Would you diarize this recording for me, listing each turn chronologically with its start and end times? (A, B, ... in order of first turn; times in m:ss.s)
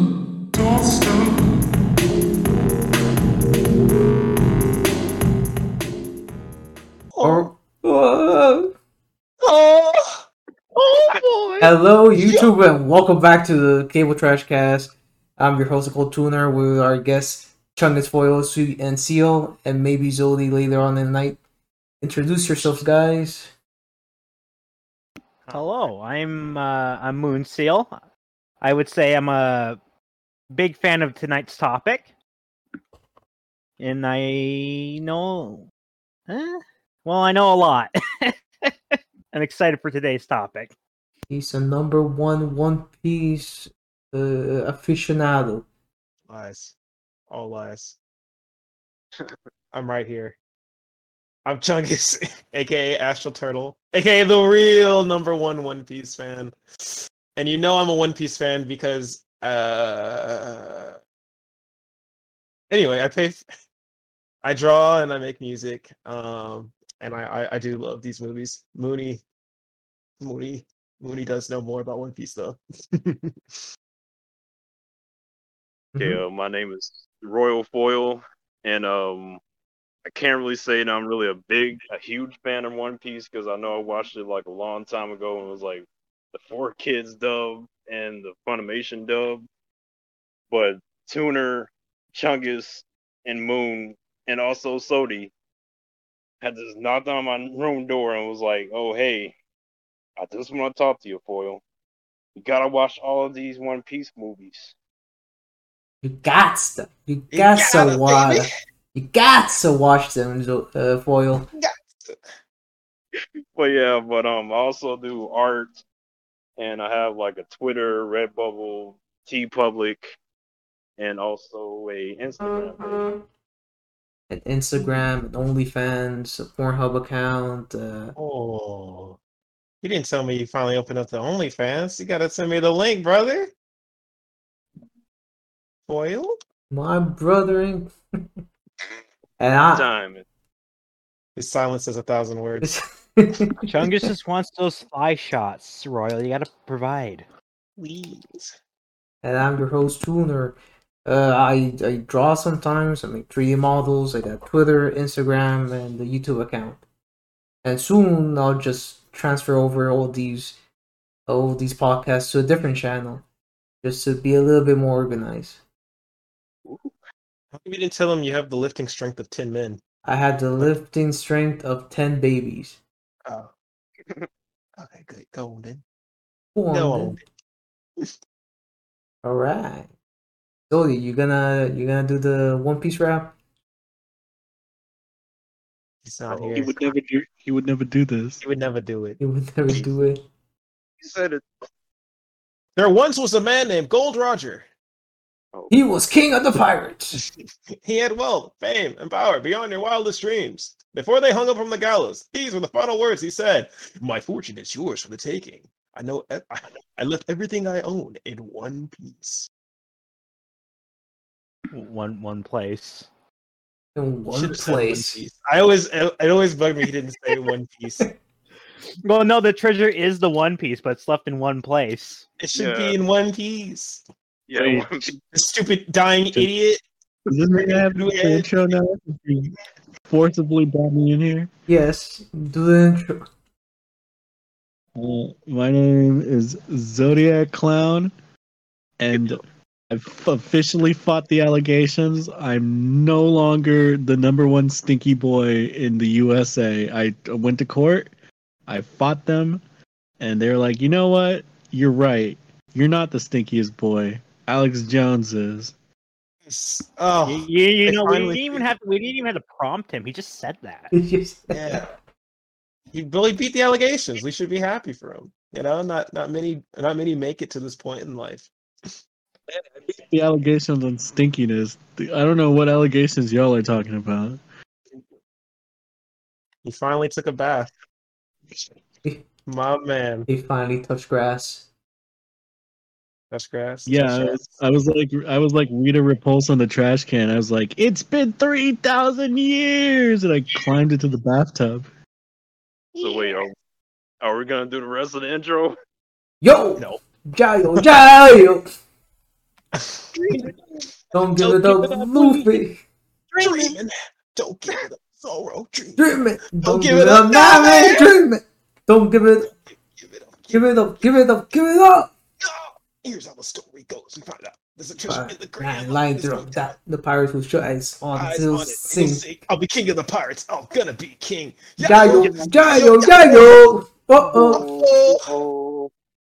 0:00.6-0:01.0 A
0:07.1-0:07.5 B
0:07.2-0:08.7 C
0:09.4-0:10.2 B
0:11.6-0:21.4 C
0:12.1-0:12.5 B
0:22.0-0:23.5 C
0:25.4-0:25.7 B
0:25.5-0:27.9 D
0:28.6-0:29.8 D
0:30.5-0:32.1 D
0:33.8-0:35.7 D
0:36.3-0:40.7 D
0:41.3-0:45.6 C
0:46.3-0:46.7 B
0:47.3-0:48.0 B
0:49.7-0:50.4 B
0:51.4-1:01.0 B
1:02.7-1:03.4 B
1:04.4-1:09.2 B
1:10.2-1:13.6 B
1:15.9-1:16.2 C
1:16.0-1:19.4 E
1:20.0-1:29.4 E
1:30.5-1:35.3 E
1:36.4-1:39.3 E
1:40.2-1:41.6 E
1:42.4-1:44.7 E
1:46.0-1:51.5 C
1:47.3-1:48.5 B
1:51.5-1:52.2 B
1:53.2-1:55.8 E
1:56.6-2:00.1 E
2:01.0-2:03.1 E
2:04.3-2:08.2 C
2:08.2-2:09.2 B
2:09.8-2:13.5 B
2:15.9-2:16.4 B
2:16.7-2:17.9 C
2:19.4-2:19.9 C
2:19.7-2:20.2 E
2:21.4-2:22.8 B
2:22.6-2:23.7 C
2:23.7-2:27.3 D
2:27.8-2:28.5 B
2:29.2-2:36.8 C
2:37.6-2:40.6 C
2:41.3-2:43.2 C
2:43.8-2:45.6 C
2:46.6-2:46.9 E
2:47.5-2:49.8 B
2:50.0-2:52.8 C
2:53.2-2:53.5 B
2:54.8-2:55.8 B
2:56.5-2:57.2 C
2:56.7-2:57.2 B
2:59.2-2:59.9 C
3:00.7-3:03.3 C
3:06.0-3:06.8 B
3:06.3-3:06.9 E
3:06.5-3:08.4 A
3:08.4-3:09.2 B
3:09.2-3:10.2 C
3:09.7-3:10.1 E
3:11.0-3:11.4 E
3:12.8-3:14.7 B
3:15.5-3:15.8 E
3:15.7-3:17.2 C
3:17.1-3:29.5 B
3:31.7-3:33.1 D
3:33.9-3:35.2 C
3:34.3-3:38.1 B
3:39.0-3:42.2 D
3:42.4-3:44.0 B
3:42.5-3:43.0 E
3:44.5-3:45.1 E
3:44.6-3:46.8 B
3:47.3-3:49.5 A
3:47.9-3:48.7 B
3:50.1-3:51.5 A
3:51.7-3:53.2 C
3:55.0-3:58.1 A
3:59.0-4:08.1 A
4:08.7-4:09.6 A
4:10.2-4:15.7 A
4:16.4-4:18.6 B
4:17.2-4:20.9 D
4:20.9-4:21.8 C
4:21.5-4:21.9 B
4:22.9-4:29.0 B
4:29.5-4:29.8 B
4:29.9-4:34.4 A
4:36.6-4:37.7 B
4:39.4-4:40.3 B
4:40.3-4:41.6 C
4:43.3-4:44.6 B
4:43.9-4:51.9 A
4:52.9-4:53.4 B
4:53.0-4:53.5 E
4:54.2-4:55.8 E
4:56.4-4:58.7 C
4:56.8-4:57.0 B
4:59.7-5:00.5 B
5:01.1-5:02.8 C
5:01.4-5:02.6 B
5:03.3-5:03.7 D
5:03.4-5:06.0 B
5:06.0-5:09.5 C
5:06.6-5:08.1 B
5:09.8-5:10.7 B
5:10.5-5:12.1 C
5:12.4-5:16.7 B
5:15.0-5:19.2 C
5:18.1-5:23.6 B
5:21.8-5:24.6 C
5:22.0-5:22.8 E
5:24.2-5:25.9 E
5:24.5-5:25.3 B